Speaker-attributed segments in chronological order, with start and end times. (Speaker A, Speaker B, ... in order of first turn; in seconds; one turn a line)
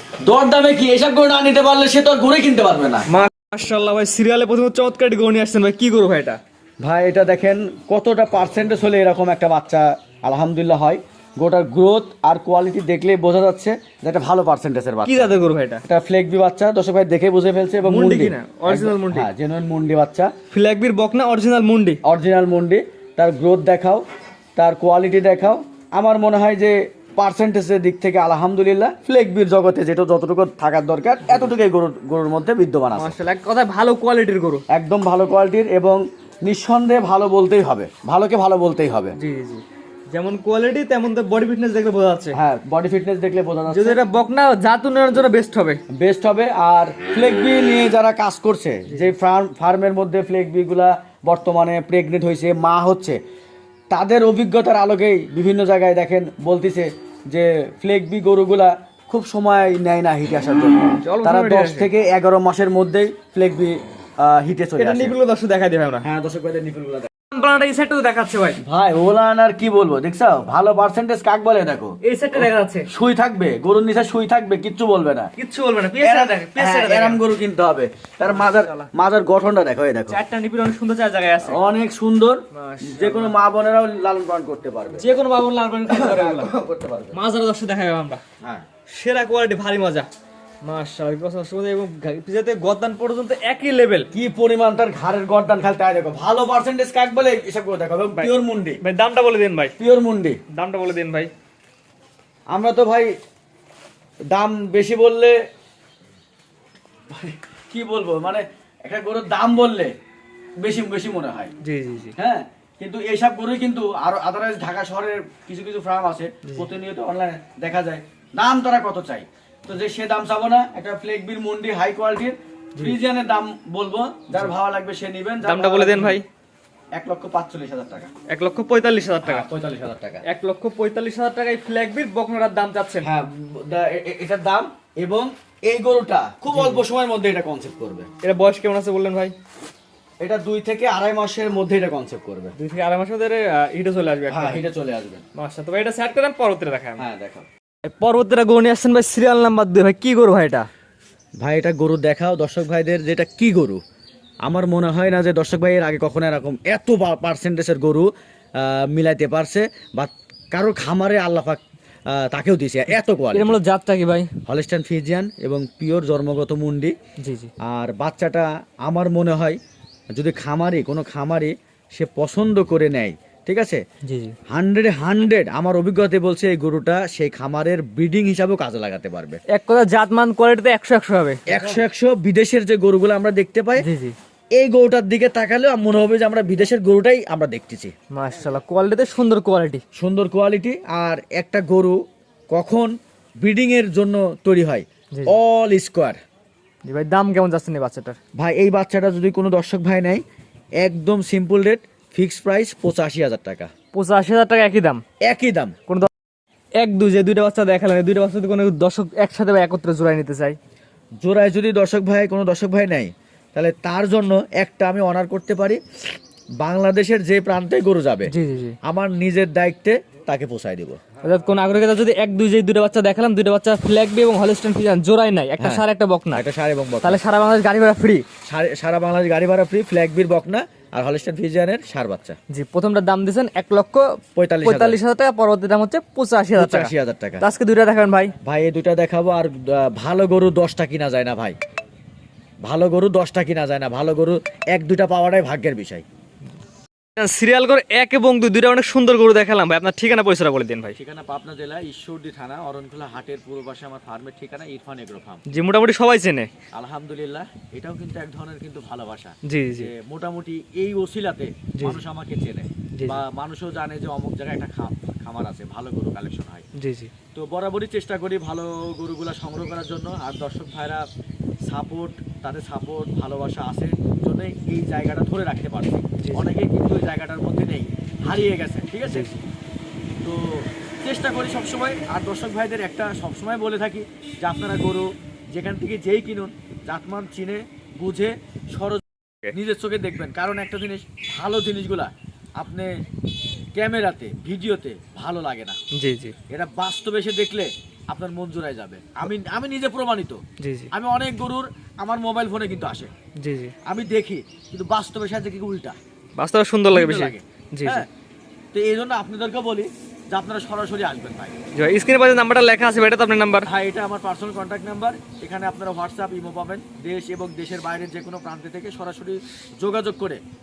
Speaker A: 0.2-3.1
Speaker B: 3.1-6.4
Speaker A: 6.8-15.3
Speaker B: 15.0-15.8
Speaker A: 15.9-20.3
Speaker B: 17.8-19.3
Speaker B: 20.5-22.0
Speaker A: 22.0-24.0
Speaker A: 24.6-33.1
Speaker B: 33.0-34.6
Speaker A: 34.7-39.2
Speaker B: 39.2-42.4
Speaker A: 42.3-44.0
Speaker B: 43.7-45.8
Speaker A: 46.0-53.2
Speaker A: 53.9-65.1
Speaker B: 61.0-61.9
Speaker B: 64.8-66.1
Speaker A: 66.0-67.1
Speaker B: 67.3-68.6
Speaker A: 68.6-75.3
Speaker B: 72.0-72.9
Speaker B: 75.4-77.2
Speaker A: 76.0-80.2
Speaker B: 78.3-78.9
Speaker B: 80.1-81.6
Speaker A: 81.4-85.1
Speaker B: 82.5-83.3
Speaker B: 85.0-86.5
Speaker A: 85.9-87.2
Speaker B: 87.1-88.2
Speaker B: 88.9-90.1
Speaker B: 90.6-94.1
Speaker A: 94.1-98.8
Speaker B: 98.2-99.7
Speaker A: 99.8-100.4
Speaker B: 100.5-101.3
Speaker A: 102.5-103.1
Speaker A: 104.3-105.3
Speaker A: 107.1-109.9
Speaker A: 110.6-111.5
Speaker B: 111.6-112.2
Speaker A: 112.2-126.2
Speaker B: 125.4-126.2
Speaker A: 127.0-128.1
Speaker B: 128.3-129.5
Speaker A: 129.2-130.2
Speaker B: 130.3-133.1
Speaker A: 133.0-138.1
Speaker B: 136.5-136.8
Speaker B: 138.2-139.3
Speaker A: 140.2-142.6
Speaker B: 142.6-144.6
Speaker A: 144.3-145.2
Speaker B: 145.3-147.0
Speaker A: 147.0-147.5
Speaker B: 147.9-150.7
Speaker A: 151.4-153.8
Speaker A: 154.4-158.1
Speaker A: 158.6-161.6
Speaker A: 162.1-163.6
Speaker B: 163.3-164.3
Speaker A: 164.5-166.9
Speaker B: 167.2-167.5
Speaker A: 167.7-169.6
Speaker A: 170.1-173.8
Speaker B: 174.0-174.4
Speaker A: 174.5-179.4
Speaker B: 179.5-181.8
Speaker A: 181.5-183.9
Speaker B: 183.8-184.2
Speaker A: 184.6-187.9
Speaker B: 188.1-189.8
Speaker A: 190.0-192.0
Speaker A: 192.5-196.2
Speaker B: 196.8-198.2
Speaker A: 198.4-200.2
Speaker A: 200.8-203.7
Speaker B: 203.9-205.0
Speaker A: 205.3-205.8
Speaker B: 206.8-210.6
Speaker A: 211.2-215.8
Speaker A: 216.6-218.3
Speaker B: 218.3-218.8
Speaker A: 218.8-221.0
Speaker B: 221.2-226.4
Speaker A: 226.3-227.2
Speaker B: 227.0-228.2
Speaker A: 228.5-232.4
Speaker B: 232.5-238.3
Speaker A: 234.4-235.0
Speaker A: 236.6-237.4
Speaker A: 238.4-241.6
Speaker A: 242.6-246.0
Speaker B: 247.2-251.0
Speaker A: 251.0-255.4
Speaker B: 255.5-256.5
Speaker A: 256.7-266.6
Speaker B: 259.4-259.9
Speaker B: 261.8-262.0
Speaker B: 266.8-267.1
Speaker A: 267.3-271.1
Speaker A: 271.7-279.3
Speaker B: 276.2-276.5
Speaker B: 279.1-279.4
Speaker A: 280.2-292.9
Speaker A: 293.8-295.8
Speaker B: 295.9-296.4
Speaker A: 296.5-300.4
Speaker B: 300.6-300.9
Speaker A: 300.9-303.1
Speaker B: 303.4-303.8
Speaker A: 303.9-306.0
Speaker B: 306.4-308.1
Speaker A: 306.9-308.1
Speaker A: 308.7-311.6
Speaker B: 311.8-313.7
Speaker A: 313.7-320.4